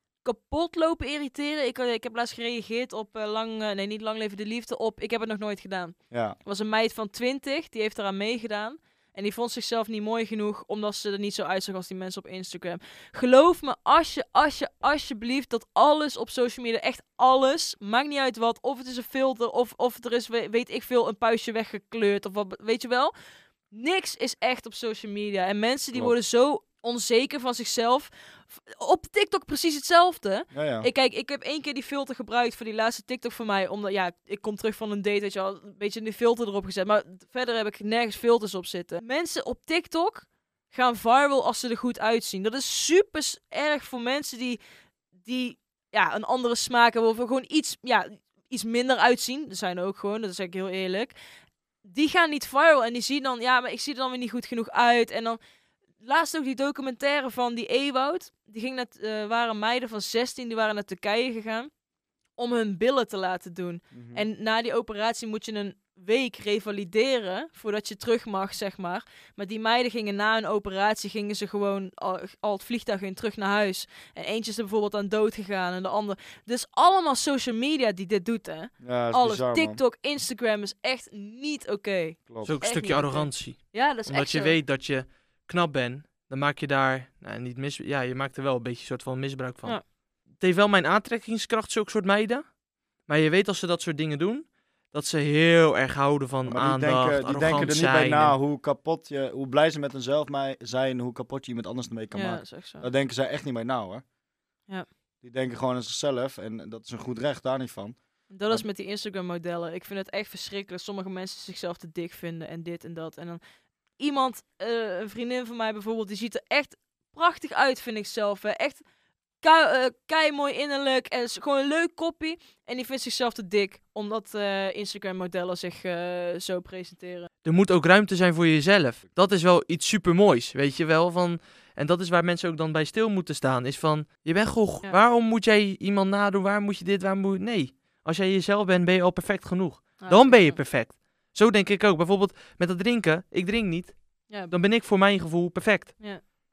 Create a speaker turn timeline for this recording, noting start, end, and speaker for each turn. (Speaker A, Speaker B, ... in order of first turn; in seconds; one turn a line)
Speaker A: 0.2-23.1
Speaker B: 6.1-6.4
Speaker A: 23.7-44.6
Speaker B: 30.5-30.9
Speaker A: 45.2-51.1
Speaker A: 51.8-55.4
Speaker A: 56.0-61.7
Speaker A: 62.4-84.6
Speaker B: 63.9-64.2
Speaker B: 78.8-79.8
Speaker B: 82.3-82.5
Speaker C: 82.4-89.8
Speaker C: 90.4-92.5
Speaker C: 93.0-98.3
Speaker B: 96.5-104.0
Speaker A: 102.1-102.9
Speaker B: 105.2-108.0
Speaker A: 108.3-113.4
Speaker A: 114.0-118.8
Speaker A: 119.4-127.3
Speaker C: 127.4-145.9
Speaker A: 140.0-140.6
Speaker A: 144.3-144.5